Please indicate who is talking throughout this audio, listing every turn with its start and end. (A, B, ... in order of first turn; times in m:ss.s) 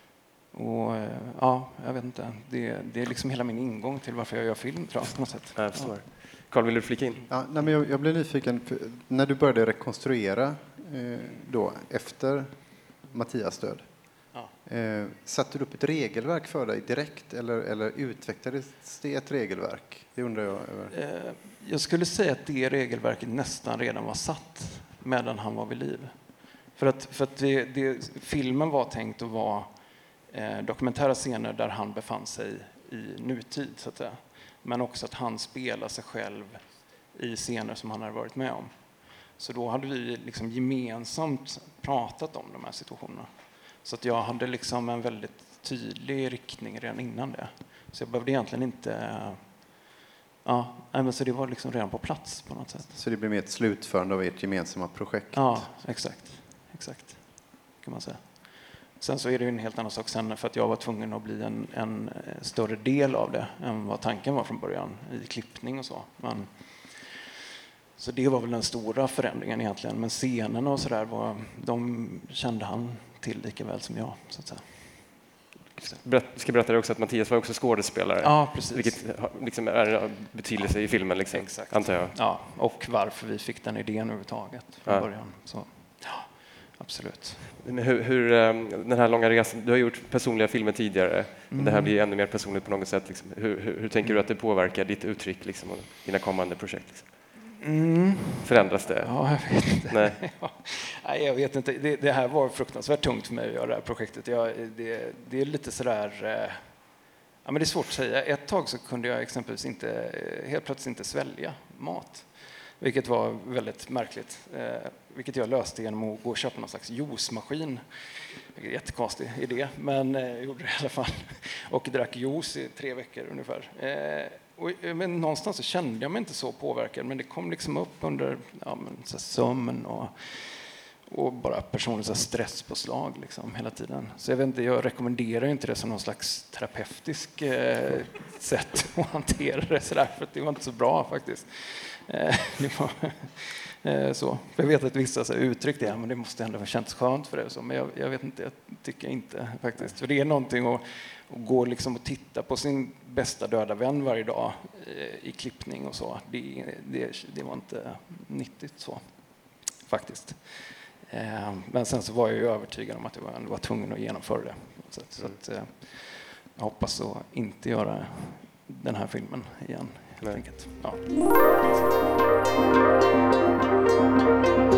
0:00.5-0:06.3 A
0:05.0-0:07.3 B
0:07.3-0:20.9 C
0:20.9-0:49.8 A
0:50.4-0:53.0 A
0:52.9-0:55.8 C
0:55.3-1:07.3 A
1:07.9-1:16.0 A
1:15.8-1:22.2 B
1:18.2-1:19.1 A
1:20.6-1:27.5 A
1:24.8-1:25.6 B
1:27.6-1:37.3 B
1:31.5-1:32.0 A
1:37.6-2:52.0 A
1:38.4-1:40.3 B
2:50.2-2:50.9 B